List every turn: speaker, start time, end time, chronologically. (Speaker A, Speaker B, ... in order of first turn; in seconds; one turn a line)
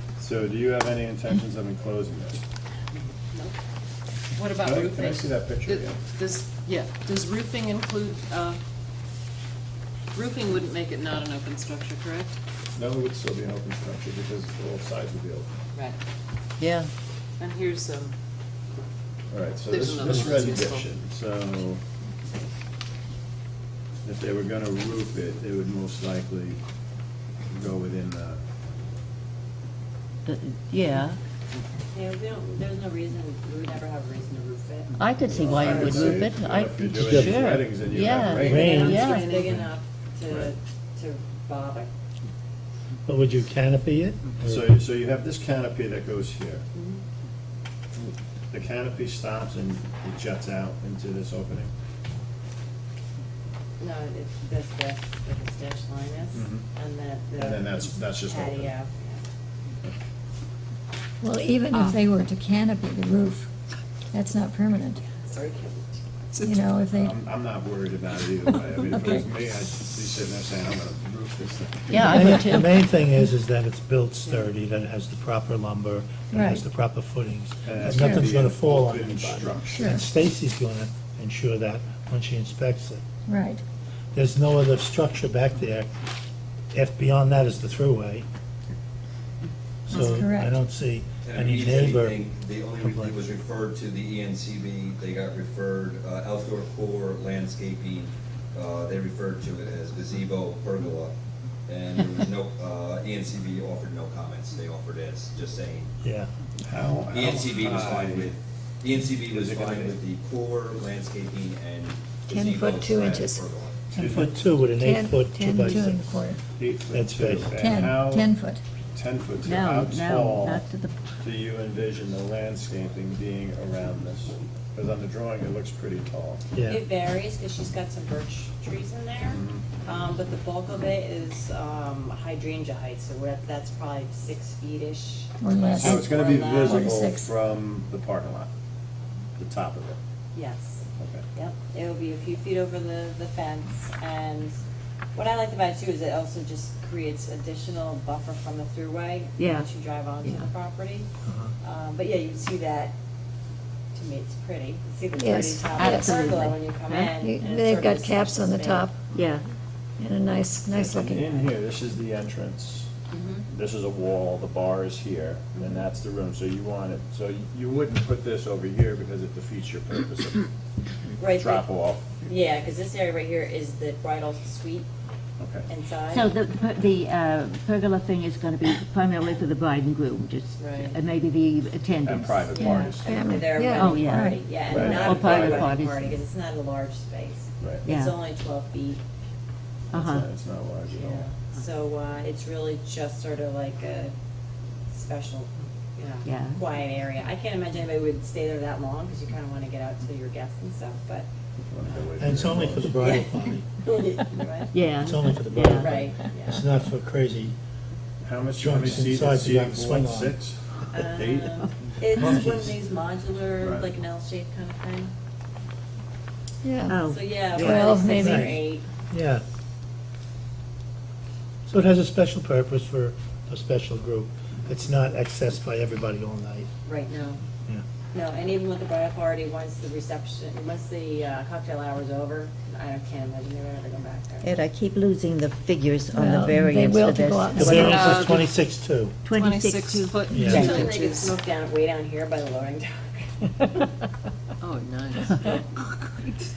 Speaker A: 0.2-2.4
Speaker B: 4.3-8.6
Speaker A: 4.6-6.0
Speaker B: 10.1-12.3
Speaker A: 12.8-15.5
Speaker C: 16.6-16.9
Speaker B: 17.4-18.1
Speaker A: 19.3-21.8
Speaker B: 19.6-20.9
Speaker A: 24.0-26.6
Speaker A: 27.5-28.4
Speaker C: 30.2-31.2
Speaker D: 31.9-34.9
Speaker C: 35.0-39.3
Speaker A: 35.2-39.0
Speaker D: 35.5-36.1
Speaker E: 36.9-37.7
Speaker E: 38.3-38.9
Speaker D: 38.3-41.9
Speaker B: 39.0-39.6
Speaker A: 40.3-40.5
Speaker E: 43.1-44.8
Speaker A: 44.4-46.6
Speaker D: 46.7-47.0
Speaker A: 48.5-51.7
Speaker D: 53.8-59.2
Speaker A: 56.3-56.6
Speaker A: 57.3-58.7
Speaker F: 61.2-63.5
Speaker F: 64.1-65.0
Speaker D: 65.2-66.0
Speaker B: 66.3-66.7
Speaker F: 66.4-67.2
Speaker A: 66.9-72.1
Speaker C: 71.9-72.8
Speaker E: 72.0-83.0
Speaker F: 76.3-76.6
Speaker A: 77.6-80.0
Speaker F: 77.8-78.3
Speaker F: 79.7-80.0
Speaker F: 83.3-83.6
Speaker E: 84.1-85.9
Speaker E: 86.7-88.2
Speaker E: 89.9-92.2
Speaker F: 89.9-90.5
Speaker G: 91.2-101.1
Speaker E: 92.8-93.2
Speaker G: 101.7-105.9
Speaker E: 106.0-106.3
Speaker A: 106.6-108.3
Speaker G: 107.1-113.9
Speaker A: 109.2-110.0
Speaker F: 112.2-116.4
Speaker A: 113.9-114.3
Speaker E: 114.1-116.1
Speaker A: 116.6-118.3
Speaker E: 116.9-117.6
Speaker F: 117.5-118.6
Speaker A: 118.9-120.7
Speaker C: 119.4-121.0
Speaker A: 121.2-126.4
Speaker E: 126.5-126.8
Speaker D: 126.6-137.0
Speaker A: 129.2-129.7
Speaker F: 135.4-137.3
Speaker A: 135.8-138.5
Speaker A: 139.4-140.0
Speaker D: 140.3-144.6
Speaker A: 141.0-141.2
Speaker D: 145.1-151.1
Speaker C: 149.4-149.7
Speaker E: 151.2-151.5
Speaker D: 151.6-152.9
Speaker D: 153.9-158.9
Speaker F: 155.1-156.3
Speaker C: 155.8-157.1
Speaker F: 157.1-158.9
Speaker C: 159.1-159.4
Speaker F: 160.0-161.4
Speaker A: 160.7-162.9
Speaker D: 163.1-163.4
Speaker A: 163.5-170.5
Speaker D: 171.2-171.7
Speaker A: 171.2-172.1
Speaker D: 172.2-174.9
Speaker A: 175.4-175.7
Speaker D: 175.7-176.3
Speaker C: 176.1-182.8
Speaker B: 180.6-180.9
Speaker A: 182.0-183.6
Speaker D: 182.5-189.0
Speaker F: 183.0-184.0
Speaker C: 183.6-186.2
Speaker A: 184.7-185.7
Speaker A: 187.6-187.8
Speaker C: 187.8-188.2
Speaker C: 189.9-190.3
Speaker A: 189.9-191.3
Speaker D: 190.9-194.1
Speaker D: 194.9-201.3
Speaker C: 196.2-196.6
Speaker A: 201.6-203.2
Speaker E: 202.2-203.7
Speaker D: 203.0-204.7
Speaker C: 204.7-205.9
Speaker E: 205.0-207.6
Speaker D: 205.6-206.6
Speaker A: 208.2-212.7
Speaker E: 208.5-210.4
Speaker D: 210.9-215.1
Speaker A: 213.6-213.9
Speaker F: 216.6-217.0
Speaker C: 216.9-218.3
Speaker D: 217.1-218.8
Speaker E: 217.6-218.6
Speaker F: 217.6-218.4
Speaker E: 219.1-219.4
Speaker E: 221.7-226.7
Speaker D: 226.8-227.4
Speaker D: 228.1-234.5
Speaker C: 234.4-238.3
Speaker F: 236.1-238.0
Speaker E: 237.6-239.2
Speaker B: 237.8-238.4
Speaker C: 239.2-240.9
Speaker B: 239.3-241.4
Speaker E: 240.3-240.8
Speaker D: 240.4-243.3
Speaker B: 244.6-246.4